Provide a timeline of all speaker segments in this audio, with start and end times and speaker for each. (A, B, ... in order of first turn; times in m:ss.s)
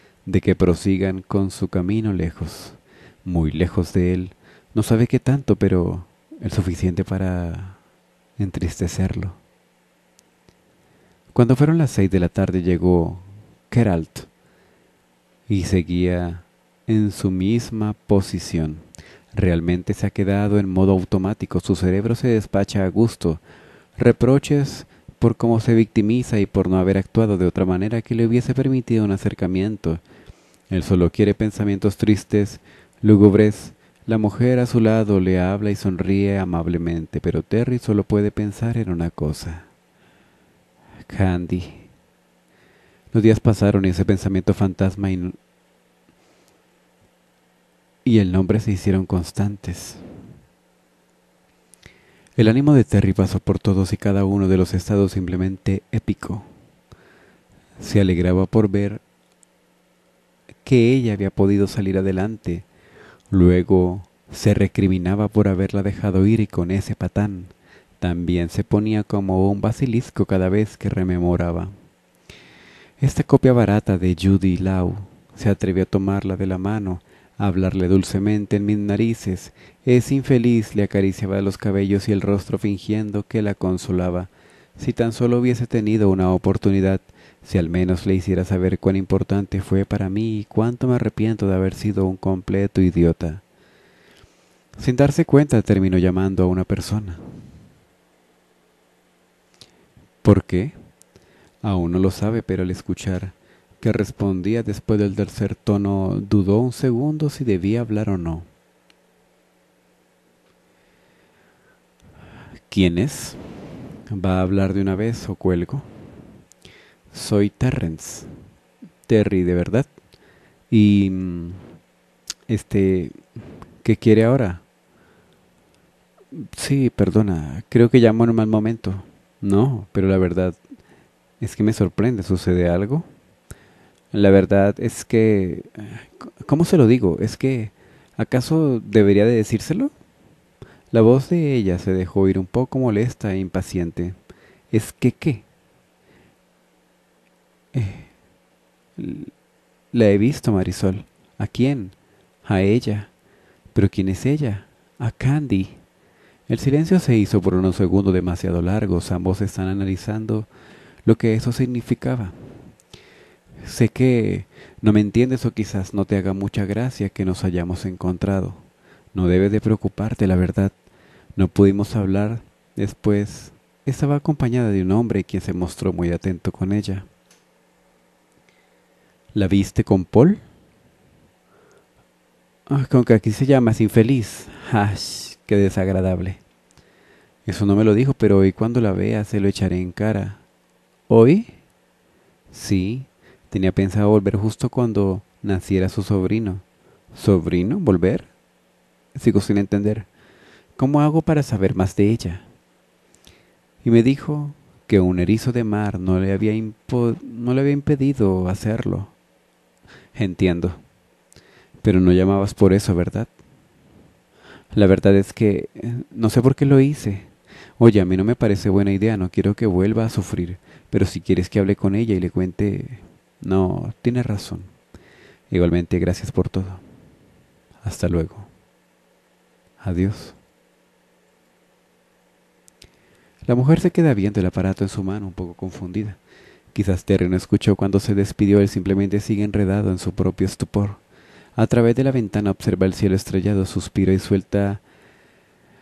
0:00.2-0:07.8 A
0:08.4-0:09.4 A
0:11.3-0:14.3 A
0:15.5-0:23.4 A
0:24.0-0:30.0 A
0:30.7-0:39.7 A
0:41.1-0:41.9 A
0:43.1-0:45.4 A
0:48.0-0:50.0 A
0:52.4-0:56.5 A
0:57.8-0:59.0 A
1:00.6-1:02.7 A
1:03.3-1:11.7 A
1:13.0-1:33.4 A
1:34.8-1:37.2 A
1:40.2-1:40.7 A
1:41.6-1:48.5 A
1:52.7-1:53.4 A
1:54.1-1:56.0 A
1:57.1-1:58.3 A
1:59.1-1:59.9 A
2:00.7-2:01.6 A
2:02.5-2:03.2 A
2:03.8-2:04.6 A
2:06.3-2:10.6 A
2:11.4-2:13.1 A
2:14.1-2:19.9 A
2:20.9-2:24.2 A
2:24.7-2:25.4 A
2:27.7-2:28.1 A
2:29.0-2:29.3 A
2:29.9-2:33.1 A
2:33.7-2:35.8 A
2:36.5-2:40.5 A
2:41.0-2:42.4 A
2:43.6-2:48.6 A
2:49.1-2:50.7 A
2:51.4-2:57.1 A
2:59.3-3:00.4 A
3:02.7-3:06.4 A
3:07.5-3:10.4 A
3:11.1-3:11.5 A
3:12.5-3:18.3 A
3:19.2-3:20.1 A
3:20.8-3:22.4 A
3:23.8-3:29.1 A
3:30.2-3:30.8 A
3:31.8-3:33.3 A
3:34.7-3:44.7 A
3:45.5-3:46.8 A
3:47.8-3:48.5 A
3:49.8-3:50.4 A
3:53.5-3:56.2 A
3:56.7-4:01.0 A
4:01.6-4:04.8 A